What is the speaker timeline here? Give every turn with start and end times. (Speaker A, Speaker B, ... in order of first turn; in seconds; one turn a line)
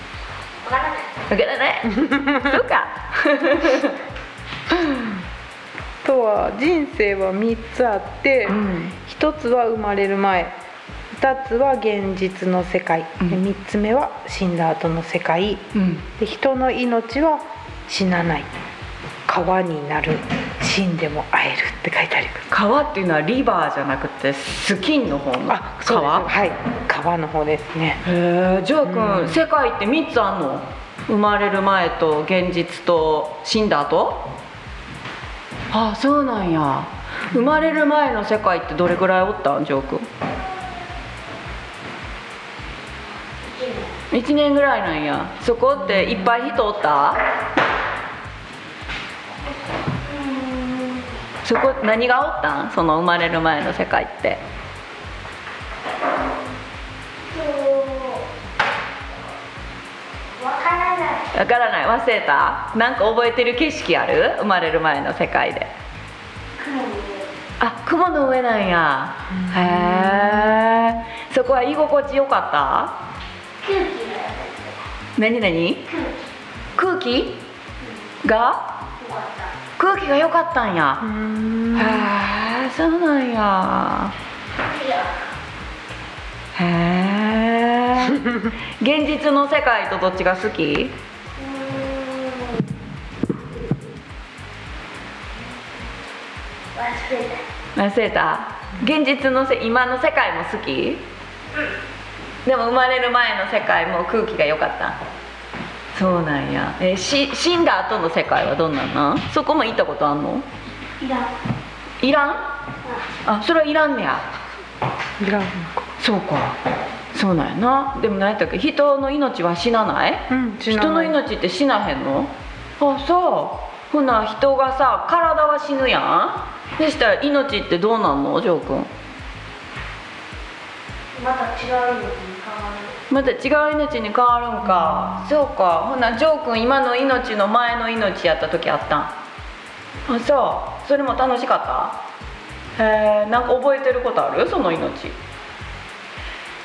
Speaker A: 0.6-1.2
Speaker B: 1.3-4.0
Speaker B: 4.7-5.1
Speaker C: 6.0-10.5
Speaker B: 8.5-8.9
Speaker C: 11.1-15.6
Speaker B: 15.7-16.0
Speaker C: 16.2-18.5
Speaker C: 19.3-22.4
Speaker B: 22.5-26.3
Speaker C: 25.5-28.0
Speaker B: 28.0-34.3
Speaker C: 28.8-29.4
Speaker B: 35.7-40.1
Speaker A: 43.4-44.0
Speaker B: 44.1-47.2
Speaker A: 50.0-51.1
Speaker B: 51.4-54.4
Speaker A: 57.3-58.3
Speaker A: 60.4-61.3
Speaker B: 61.3-65.7
Speaker A: 66.6-67.3
Speaker B: 67.6-73.0
Speaker C: 69.4-70.6
Speaker A: 73.6-74.8
Speaker B: 75.2-75.9
Speaker A: 75.9-76.2
Speaker B: 76.8-77.4
Speaker B: 78.2-78.7
Speaker A: 79.0-79.5
Speaker B: 79.8-81.0
Speaker C: 81.0-82.1
Speaker B: 81.7-84.1
Speaker A: 84.6-85.2
Speaker B: 86.5-88.3
Speaker B: 88.8-90.9
Speaker A: 91.4-92.7
Speaker A: 96.7-97.4
Speaker B: 97.8-101.0
Speaker B: 102.4-105.0
Speaker B: 105.9-110.5
Speaker A: 111.0-111.3
Speaker B: 112.0-112.4
Speaker B: 113.2-114.2
Speaker C: 115.2-115.9
Speaker B: 116.0-116.6
Speaker B: 117.1-128.9
Speaker C: 120.3-121.2
Speaker A: 131.1-133.0
Speaker B: 133.1-139.1
Speaker B: 140.1-142.0
Speaker B: 142.8-145.2